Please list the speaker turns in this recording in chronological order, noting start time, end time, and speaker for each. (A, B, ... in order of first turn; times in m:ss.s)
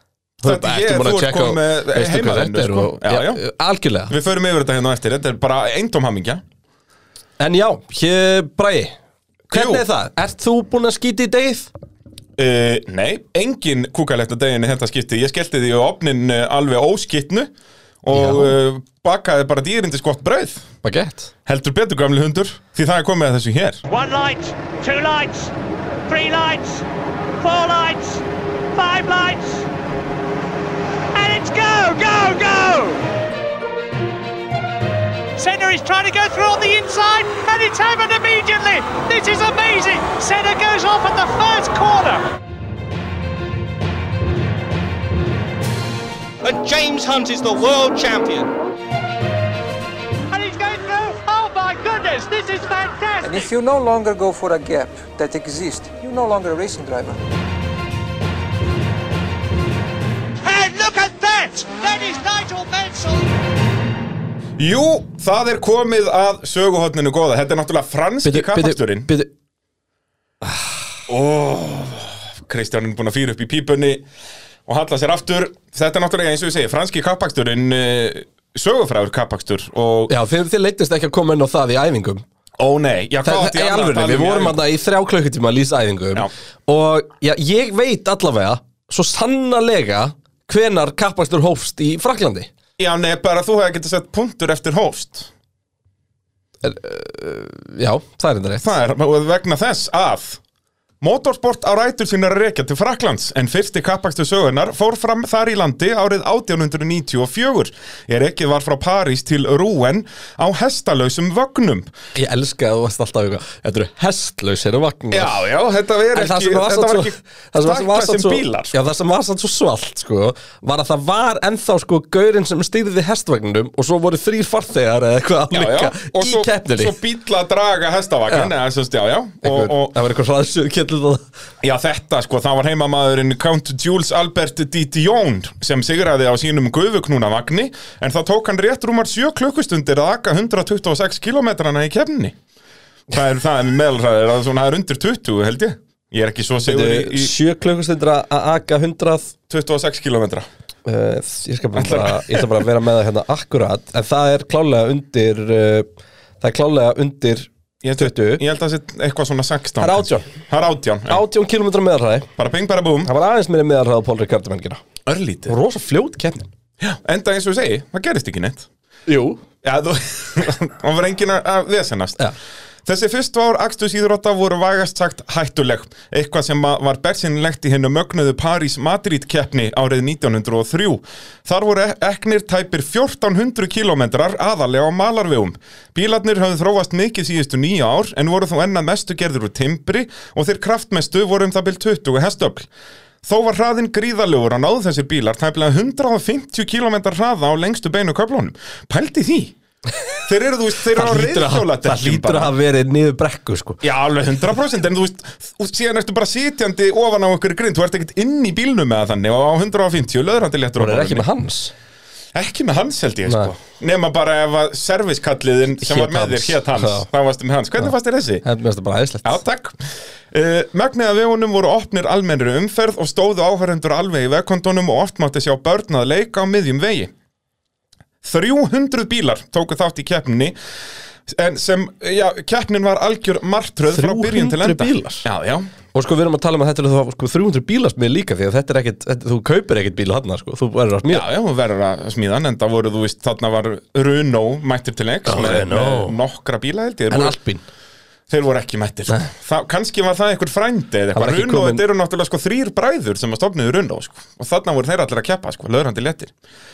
0:00.4-0:03.4 A
0:00.4-0:04.1 B
0:04.1-0:06.4 A
0:07.4-0:08.9 B
0:09.5-0:11.7 B
0:09.5-0:09.8 A
0:12.4-0:17.5 A
0:18.0-0:20.7 A
0:18.1-0:18.5 B
0:20.8-0:21.3 B
0:21.4-0:23.8 A
0:23.9-0:25.5 C
0:26.1-0:26.8 C
0:27.4-0:28.2 C
0:28.7-0:29.7 C
0:31.1-0:33.0 C
0:35.4-0:42.3 C
0:46.4-0:48.5 D
0:50.3-0:53.5 C
0:53.2-0:57.2 E
1:00.4-1:03.3 C
1:04.6-1:09.1 A
1:08.2-1:09.3 B
1:11.1-1:14.0 A
1:14.7-1:20.1 A
1:20.1-1:22.2 B
1:22.6-1:24.6 A
1:23.2-1:32.5 B
1:32.8-1:35.3 A
1:36.6-1:38.8 B
1:38.6-1:40.4 A
1:41.0-1:51.9 A
1:52.2-1:55.4 B
1:55.1-1:58.7 A
1:56.1-2:07.0 B
2:05.5-2:10.0 A
2:09.4-2:11.2 B
2:11.6-2:22.3 A
2:23.1-2:27.3 A
2:26.6-2:29.3 B
2:29.5-2:30.5 A
2:30.8-2:35.9 B
2:31.8-2:32.6 A
2:36.4-2:38.4 B
2:37.8-2:41.2 A
2:39.8-2:40.3 B
2:41.1-2:42.3 B
2:42.4-2:43.1 A
2:43.0-2:44.8 B
2:45.0-2:45.5 A
2:45.5-2:46.5 B
2:46.8-2:48.7 A
2:49.1-2:49.4 B
2:49.6-2:52.2 A
2:52.8-3:12.7 A
3:13.2-3:19.5 A
3:20.3-3:22.5 A
3:20.9-3:23.8 B
3:23.8-3:31.3 A
3:30.8-3:31.7 B
3:32.3-3:38.4 A
3:33.3-3:33.5 B
3:35.8-3:37.0 B
3:38.4-3:39.4 B
3:39.2-3:39.8 A
3:40.3-3:47.1 A
3:48.2-3:50.5 A
3:51.3-3:55.7 A
3:53.9-3:55.3 B
3:55.9-4:01.3 B
4:01.1-4:07.4 A
4:05.3-4:06.2 B
4:07.1-4:07.6 B
4:08.3-4:16.3 A
4:11.1-4:11.8 B